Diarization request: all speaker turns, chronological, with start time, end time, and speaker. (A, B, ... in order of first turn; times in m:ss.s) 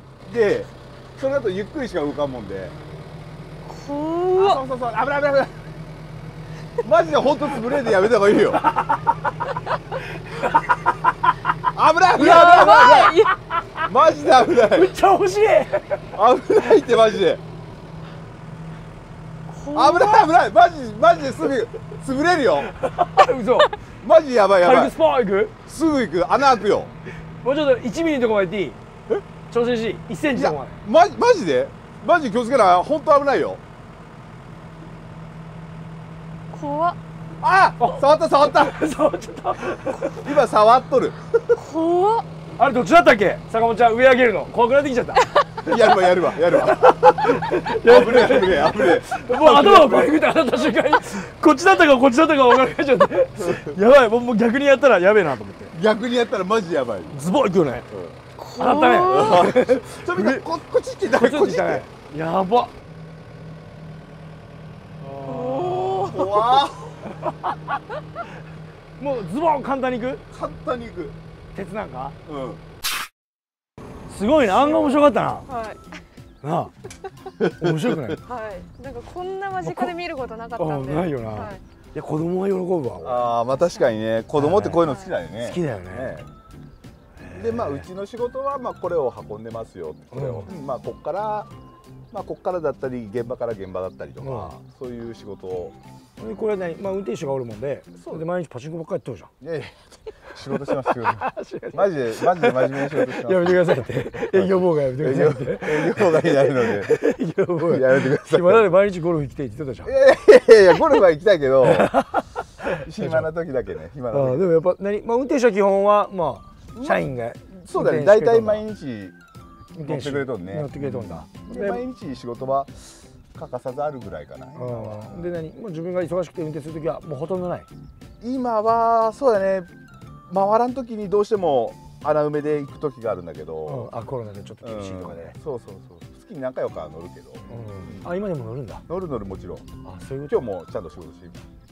0:00.2-0:02.8 A
0:03.6-0:04.6 B
0:04.4-0:05.6 A
0:06.8-0:08.6 A
0:08.6-0:09.3 C
0:10.2-0:10.8 C
0:11.7-0:13.2 A
0:12.2-0:13.3 B
0:13.9-0:14.9 A
0:14.4-0:16.2 C
0:16.1-0:17.4 A
0:19.5-0:20.2 B
0:19.7-0:22.7 A
0:22.6-0:23.7 C
0:24.0-0:24.9 A
0:24.6-0:25.5 C
0:25.6-0:26.9 A
0:27.1-0:28.8 C
0:29.5-0:30.8 C
0:30.3-0:33.6 A
0:36.5-0:37.0 B
0:37.4-0:38.8 A
0:37.8-0:40.3 C
0:40.0-0:41.2 A
0:41.5-0:42.2 B
0:42.6-0:45.3 C
0:45.6-0:50.2 A
0:45.9-0:55.7 C
0:53.4-0:53.7 A
0:55.7-0:57.2 A
0:57.1-0:57.9 C
0:57.9-0:58.2 A
0:58.4-0:59.5 B
0:58.5-1:00.4 C
0:59.0-1:01.8 A
1:01.1-1:02.7 C
1:05.0-1:06.1 C
1:05.2-1:06.6 B
1:06.0-1:07.0 A
1:07.2-1:07.5 C
1:09.0-1:10.2 C
1:10.3-1:11.2 A
1:11.5-1:12.2 C
1:12.2-1:12.6 A
1:14.1-1:15.4 C
1:15.5-1:15.8 B
1:16.4-1:16.7 C
1:17.4-1:18.0 A
1:17.6-1:18.2 C
1:18.2-1:21.6 B
1:19.6-1:19.9 C
1:20.6-1:23.3 C
1:23.0-1:26.3 A
1:24.4-1:24.8 C
1:24.8-1:25.1 B
1:25.4-1:26.1 C
1:27.2-1:27.8 C
1:27.3-1:31.5 A
1:30.1-1:30.5 C
1:32.1-1:35.8 A
1:34.2-1:34.6 C
1:36.2-1:39.3 C
1:37.9-1:38.2 A
1:39.4-1:47.0 A
1:40.9-1:49.9 C
1:47.6-1:48.7 A
1:49.8-1:52.0 A
1:51.6-1:53.3 C
1:52.8-1:54.4 A
1:54.1-1:58.6 C
1:56.7-1:59.2 A
1:59.7-2:01.8 C
1:59.8-2:05.4 A
2:04.5-2:07.7 C
2:08.2-2:09.7 A
2:10.3-2:13.9 A
2:13.6-2:15.3 C
2:14.6-2:18.1 A
2:17.5-2:18.8 C
2:18.9-2:19.7 A
2:19.8-2:20.4 C
2:20.3-2:21.4 A